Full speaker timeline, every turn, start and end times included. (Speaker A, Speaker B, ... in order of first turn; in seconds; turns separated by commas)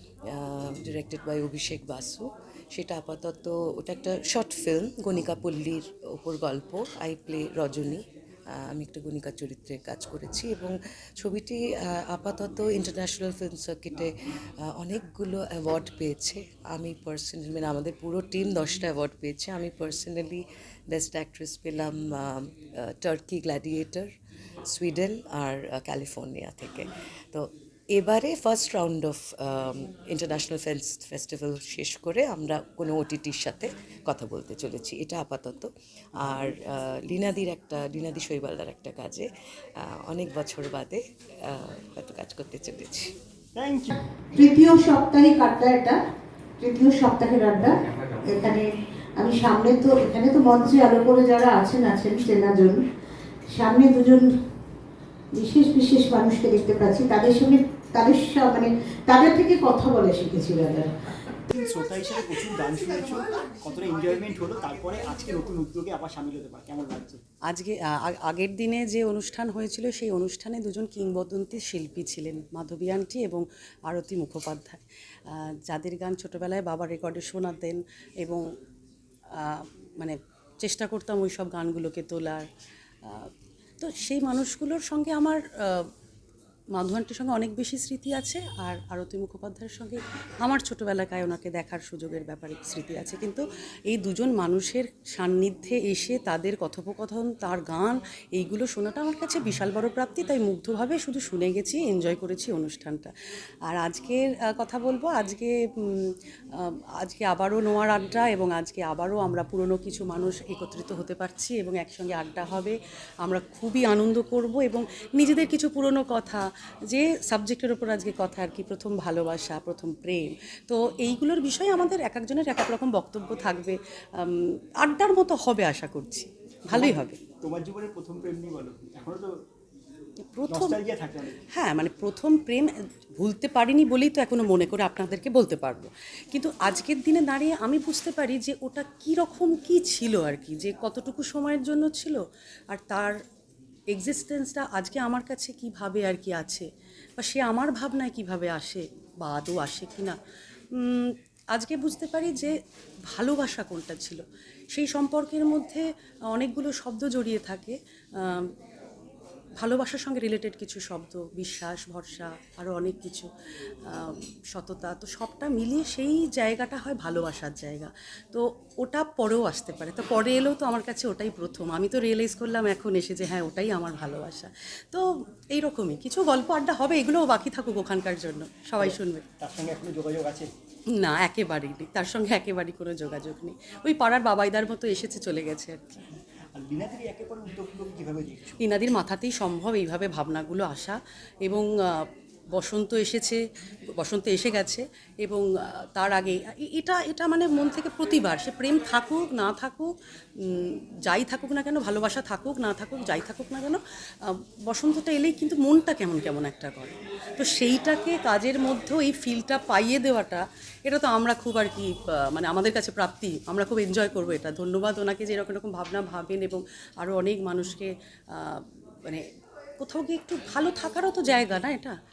Speaker A: 0.3-24.1, Speaker A: 24.7-39.3, Speaker A: 39.8-43.1, Speaker B: 43.6-44.0, Speaker C: 44.3-46.0, Speaker C: 46.6-52.8, Speaker C: 53.5-54.3, Speaker C: 55.4-60.9, Speaker B: 61.5-67.2, Speaker D: 67.5-78.5, Speaker D: 79.4-82.5, Speaker D: 83.8-85.9, Speaker D: 86.7-103.1, Speaker D: 103.7-127.2, Speaker B: 126.7-129.4, Speaker D: 130.3-130.8, Speaker B: 130.5-131.4, Speaker D: 131.5-143.2, Speaker D: 143.9-150.2, Speaker D: 150.8-152.6, Speaker D: 153.1-158.5, Speaker D: 159.6-163.3, Speaker D: 163.9-179.2, Speaker B: 178.8-180.5, Speaker D: 181.0-186.0, Speaker B: 186.5-188.6, Speaker D: 188.6-193.4, Speaker D: 194.0-219.3, Speaker D: 219.8-222.0